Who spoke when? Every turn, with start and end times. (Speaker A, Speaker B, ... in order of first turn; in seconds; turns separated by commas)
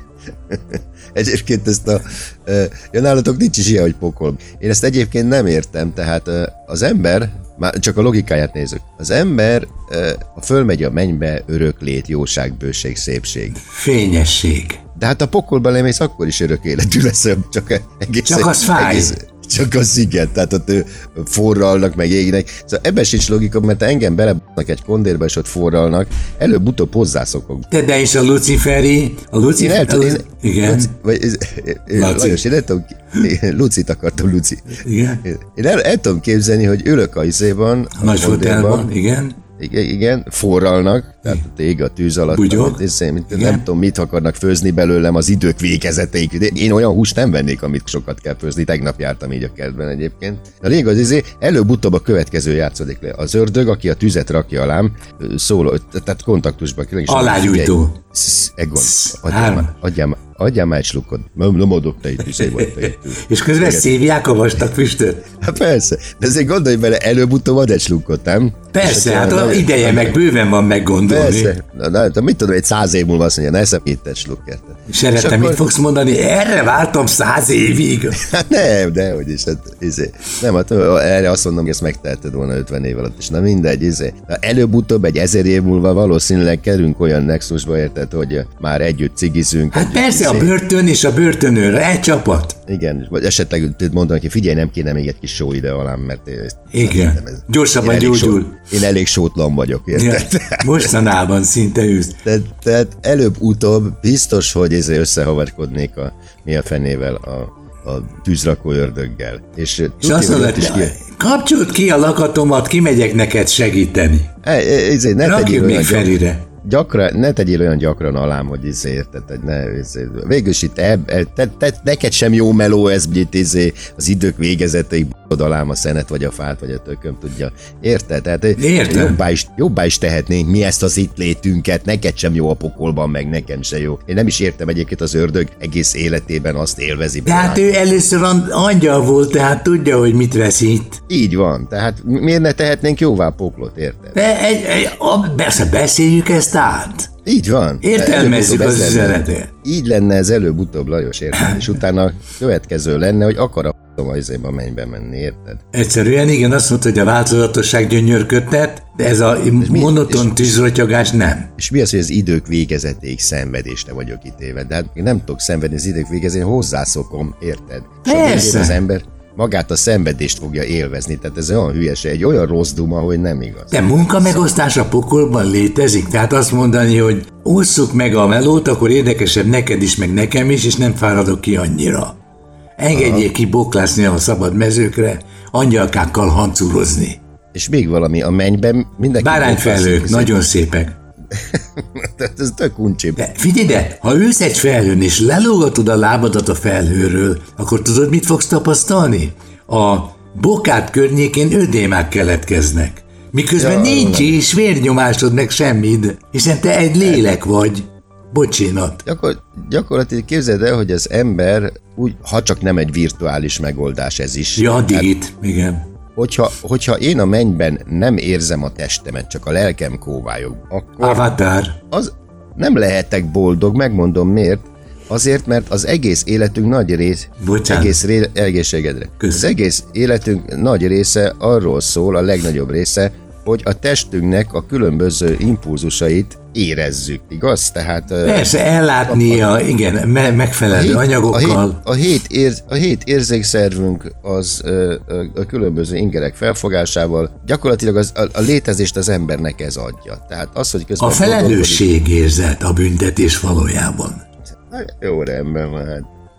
Speaker A: 0.5-13.6, Speaker B: 13.6-14.8, Speaker A: 14.9-27.7, Speaker B: 18.2-19.1, Speaker B: 27.7-30.9, Speaker A: 29.5-38.9, Speaker B: 31.9-32.4, Speaker B: 34.8-35.2, Speaker B: 38.0-39.4, Speaker A: 39.6-64.0, Speaker B: 42.3-43.6, Speaker B: 57.1-58.0, Speaker B: 58.8-59.7, Speaker B: 62.3-65.3, Speaker A: 65.4-70.2, Speaker B: 68.7-71.5, Speaker A: 71.1-75.6, Speaker B: 74.9-78.2, Speaker A: 78.2-90.5, Speaker B: 89.7-92.6, Speaker A: 92.7-100.9, Speaker B: 96.7-98.6, Speaker B: 99.9-102.1, Speaker A: 102.2-111.0, Speaker B: 110.0-114.3, Speaker A: 114.4-137.9, Speaker B: 115.2-116.5, Speaker B: 128.6-129.2, Speaker B: 137.2-141.0, Speaker A: 141.1-144.2, Speaker B: 144.1-147.1, Speaker A: 147.2-155.6, Speaker B: 147.8-149.5, Speaker B: 151.3-151.7, Speaker B: 155.7-161.5, Speaker A: 159.6-160.6, Speaker A: 161.6-174.4, Speaker B: 168.0-168.8, Speaker B: 173.7-182.2, Speaker B: 182.8-187.2, Speaker A: 182.9-183.3, Speaker A: 187.5-190.3, Speaker B: 189.2-190.9, Speaker A: 191.3-193.2, Speaker B: 193.2-209.0, Speaker A: 203.6-204.4, Speaker A: 209.0-215.1, Speaker B: 214.6-215.8, Speaker A: 216.2-221.3, Speaker B: 221.0-221.8, Speaker A: 221.9-239.5, Speaker B: 227.4-228.0, Speaker B: 238.2-241.8, Speaker A: 240.7-251.9, Speaker B: 251.0-254.2, Speaker A: 254.7-256.0